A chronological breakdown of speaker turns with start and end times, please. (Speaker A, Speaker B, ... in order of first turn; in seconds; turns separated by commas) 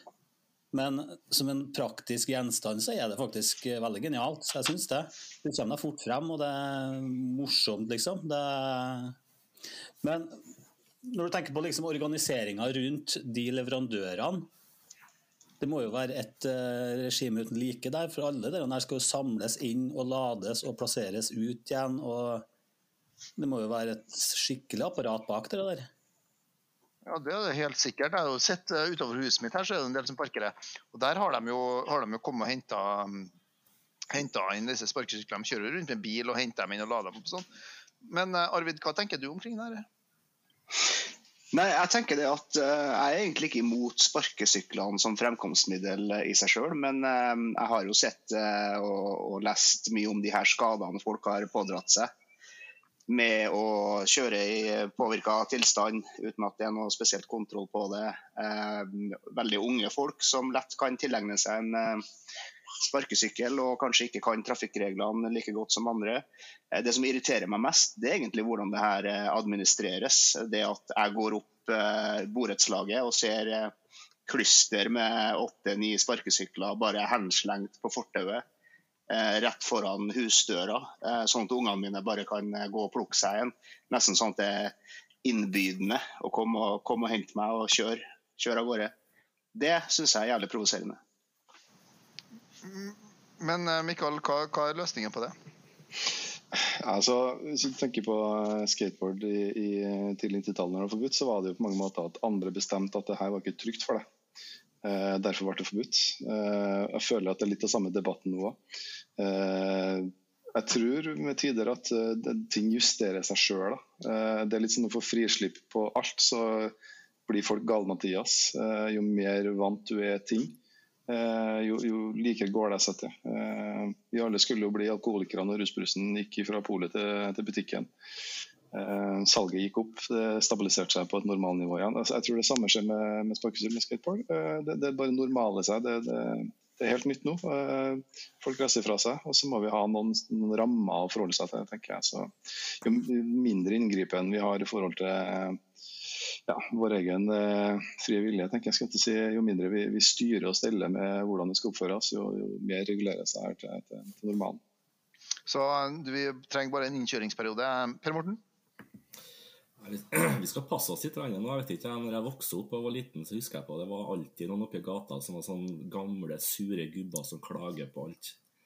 Speaker A: 0.7-9.2, Speaker A: 10.0-10.4, Speaker A: 11.0-14.5, Speaker A: 15.6-22.4, Speaker A: 23.4-25.9, Speaker B: 27.1-33.3, Speaker B: 34.1-37.5, Speaker B: 38.0-39.9, Speaker C: 41.5-52.1, Speaker C: 53.1-62.0, Speaker C: 62.8-73.7, Speaker C: 74.3-78.4, Speaker C: 79.1-88.9, Speaker C: 89.5-91.0, Speaker B: 92.6-95.3, Speaker D: 96.5-104.0, Speaker D: 104.8-108.6, Speaker D: 109.2-116.8, Speaker D: 117.3-127.9, Speaker D: 128.7-145.6, Speaker D: 146.3-154.6, Speaker B: 155.5-158.4, Speaker E: 159.8-168.4